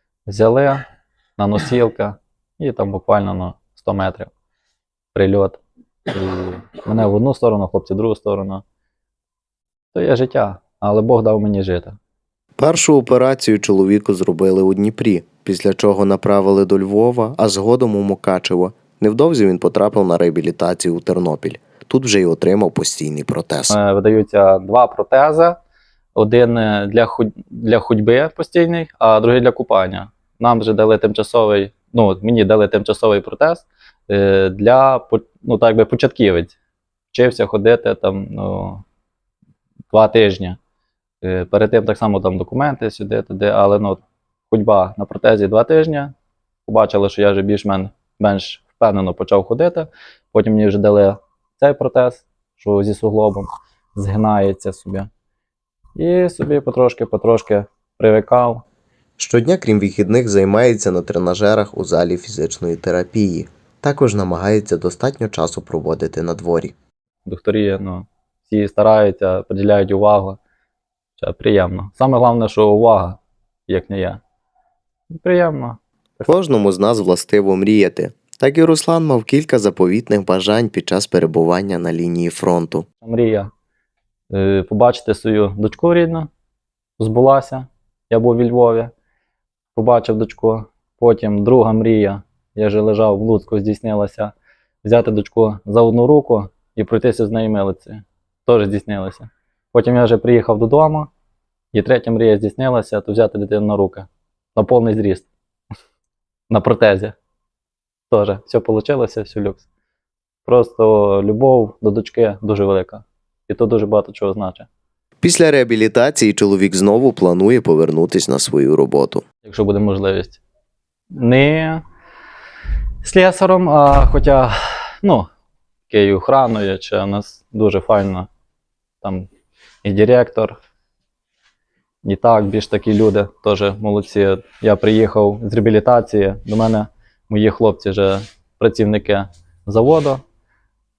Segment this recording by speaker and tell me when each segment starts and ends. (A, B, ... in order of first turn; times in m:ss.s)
0:00.3-0:00.8 A
0:01.4-0:04.3 A
0:05.2-0:08.6 A
0:09.9-0:12.0 A
0:12.6-0:23.8 B
0:23.7-0:25.6 A
0:26.2-0:36.6 A
0:37.1-0:38.8 A
0:39.9-0:40.6 A
0:41.2-0:46.1 A
0:46.7-0:55.1 A
0:56.0-0:58.6 A
0:59.2-1:06.8 B
1:07.3-1:10.4 A
1:11.2-1:14.2 A
1:15.1-1:15.8 A
1:16.2-1:22.9 B
1:23.0-1:23.5 A
1:24.3-1:26.3 A
1:27.0-1:28.9 A
1:29.7-1:41.1 A
1:41.7-1:45.3 A
1:46.5-1:47.2 A
1:48.1-1:49.6 A
1:50.4-1:54.7 A
1:55.2-1:59.2 B
1:59.4-2:00.4 A
2:01.1-2:01.8 A
2:03.0-2:05.3 A
2:05.9-2:08.3 A
2:09.0-2:09.3 A
2:09.8-2:10.6 A
2:12.0-2:20.2 A